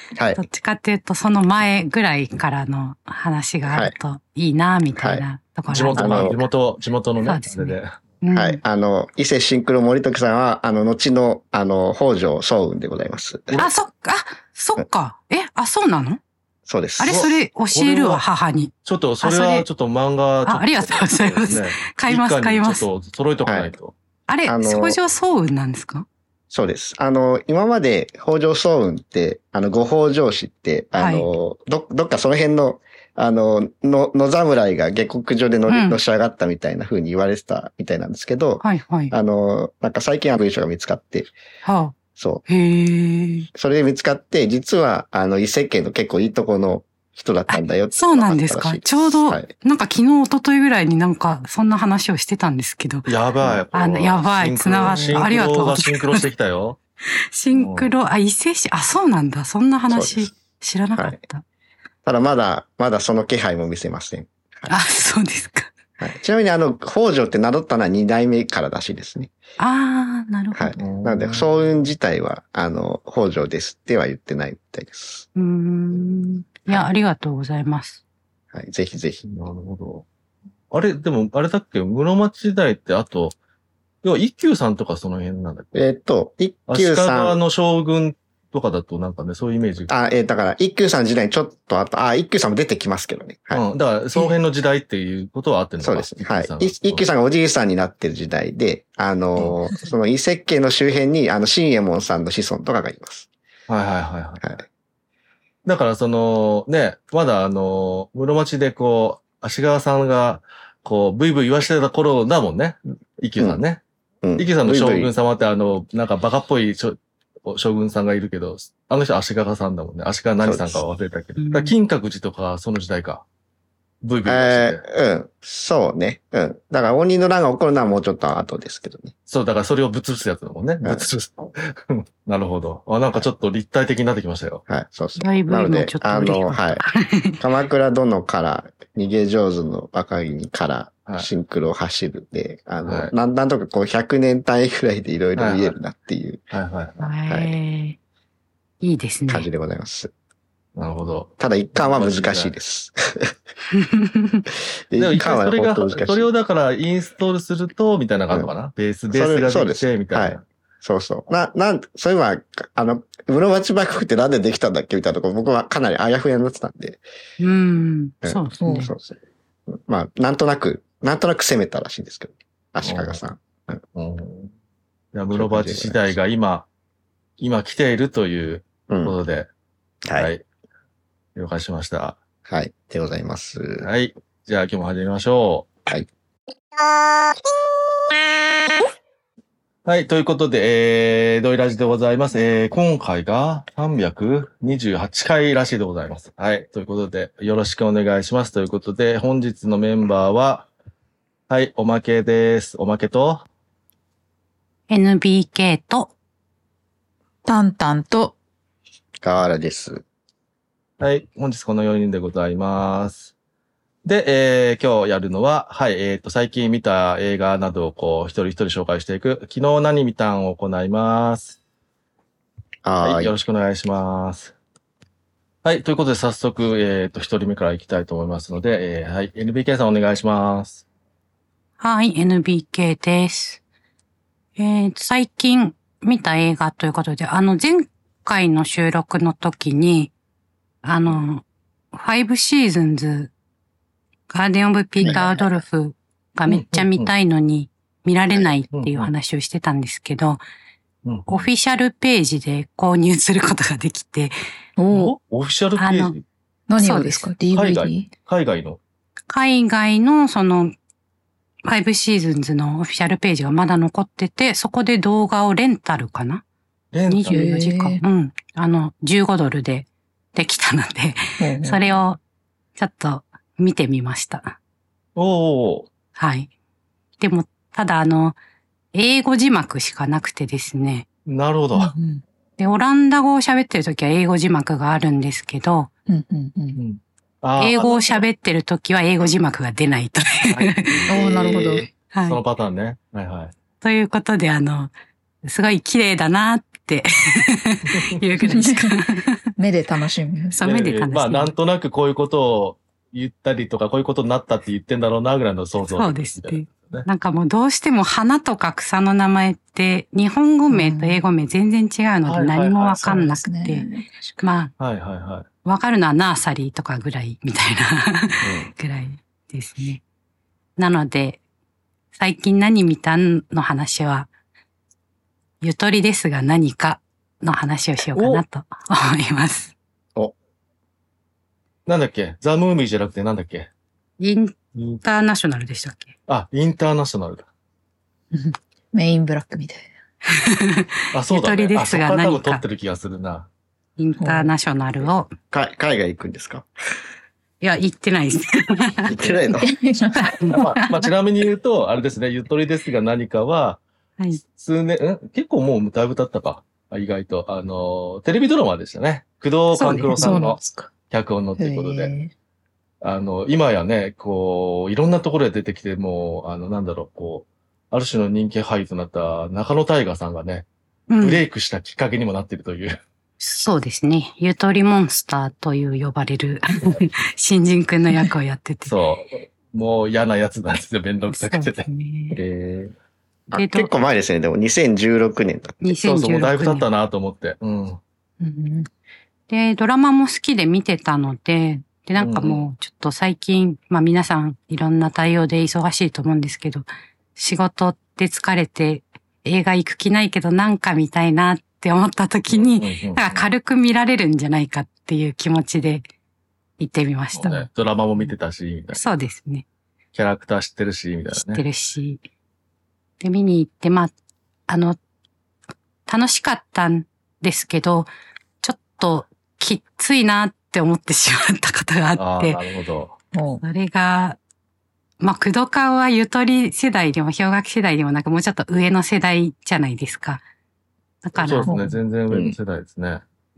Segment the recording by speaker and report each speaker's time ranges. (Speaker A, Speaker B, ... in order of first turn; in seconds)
Speaker A: 0.1-0.4, 3.7-4.0, 5.0-5.2, 5.9-6.4, 8.3-13.6, 16.7-17.3, 23.4-23.7, 24.5-25.0, 26.5-41.3, 42.2-42.4, 43.5-49.5, 54.9-55.2, 59.9-60.3, 62.0-64.8, 66.0-69.3, 70.5-75.2, 78.5-79.3, 85.8-87.4, 89.9-93.6, 95.8-103.3, 114.2-115.1, 120.4-120.8, 124.3-129.1, 134.7-136.8, 137.4-146.4, 147.3-147.6, 149.3-150.1, 151.4-153.4, 154.9-156.3, 159.1-167.0, 168.2-169.2, 169.7-173.8, 175.3-176.0, 178.9-179.2, 182.5-183.9, 209.2-210.0, 222.8-223.3, 345.5-346.7, 349.1-349.7, 382.4-382.9, 383.5-385.8, 432.3-432.6
Speaker B: 0.3-6.4, 7.2-8.6, 13.6-16.2, 17.0-19.7, 20.5-22.9, 24.3-26.1, 30.9-31.3, 35.7-36.0, 38.6-39.1, 41.6-42.0, 42.5-43.5, 47.5-53.1, 53.7-56.2, 57.3-61.4, 64.7-65.7, 69.6-70.8, 75.3-78.0, 121.4-121.7, 135.2-137.4, 147.0-148.0, 148.8-149.5, 153.8-154.4, 167.4-168.9, 204.9-206.1, 231.8-233.6, 234.6-240.1, 240.8-243.3, 244.3-250.4, 251.3-254.3, 255.8-256.2, 256.8-257.3, 259.3-260.8, 261.6-266.4, 267.1-272.2, 272.8-274.6, 276.2-276.5, 277.2-278.4, 278.9-281.1, 282.6-285.9, 287.6-291.1, 292.1-292.4, 293.8-294.9, 295.4-299.4, 300.5-301.5, 305.9-313.9, 314.4-314.7, 315.6-320.0, 320.8-321.4, 322.1-324.3, 325.6-329.7, 334.2-336.1, 340.3-342.6, 344.0-345.3, 347.6-349.2, 350.2-351.1, 359.7-360.4, 371.1-371.4, 373.4-378.9, 381.3-382.3, 383.5-383.9, 385.8-386.9, 389.5-406.1, 406.8-407.7, 408.9-409.6, 411.3-412.2, 413.2-414.1, 414.7-415.0, 416.1-418.1, 418.6-422.6, 423.6-424.4, 425.2-430.4, 431.2-431.7
Speaker C: 5.7-8.0, 17.1-18.2, 18.9-23.9, 53.1-56.8, 57.5-57.9, 70.8-71.5, 79.2-80.1, 80.7-83.4, 84.0-85.8, 86.7-89.9, 93.5-97.0, 103.7-104.5, 105.7-113.8, 114.4-123.2, 124.0-124.8, 129.3-134.6, 142.9-143.1, 145.4-145.7, 146.5-147.1, 150.8-152.5, 155.0-160.4, 172.8-173.2, 173.9-174.5, 175.1-176.7, 177.4-179.5, 180.2-180.4, 181.4-182.2, 183.8-185.7, 189.8-200.7, 201.5-203.4, 211.0-213.3, 214.0-221.6, 223.0-224.5, 225.6-230.8, 246.5-247.1, 248.7-249.1, 251.1-251.5, 254.9-256.2, 257.5-258.8, 266.9-267.5, 275.1-275.9, 281.3-281.9, 286.8-288.2, 290.5-293.5, 300.6-307.1, 312.2-313.0, 314.8-315.5, 328.1-328.4, 331.9-333.7, 334.7-335.0, 336.3-337.5, 341.1-343.5, 350.5-353.8, 354.4-362.1, 363.0-370.7, 371.2-373.0, 378.9-381.9, 385.9-388.0, 392.2-392.6, 402.5-403.5, 407.3-409.0, 410.1-411.6, 422.2-423.2, 431.4-433.2
Speaker D: 168.6-168.9, 207.4-208.3, 254.8-255.1, 256.7-258.1, 267.3-268.0, 271.4-272.0, 281.8-282.2, 286.1-286.8, 291.1-291.9, 298.4-299.1, 299.6-300.6, 310.7-311.2, 313.0-314.4, 338.3-339.9, 344.2-344.5, 349.6-350.6, 360.1-360.9, 361.6-362.3, 388.4-388.9, 423.3-423.6, 431.7-432.0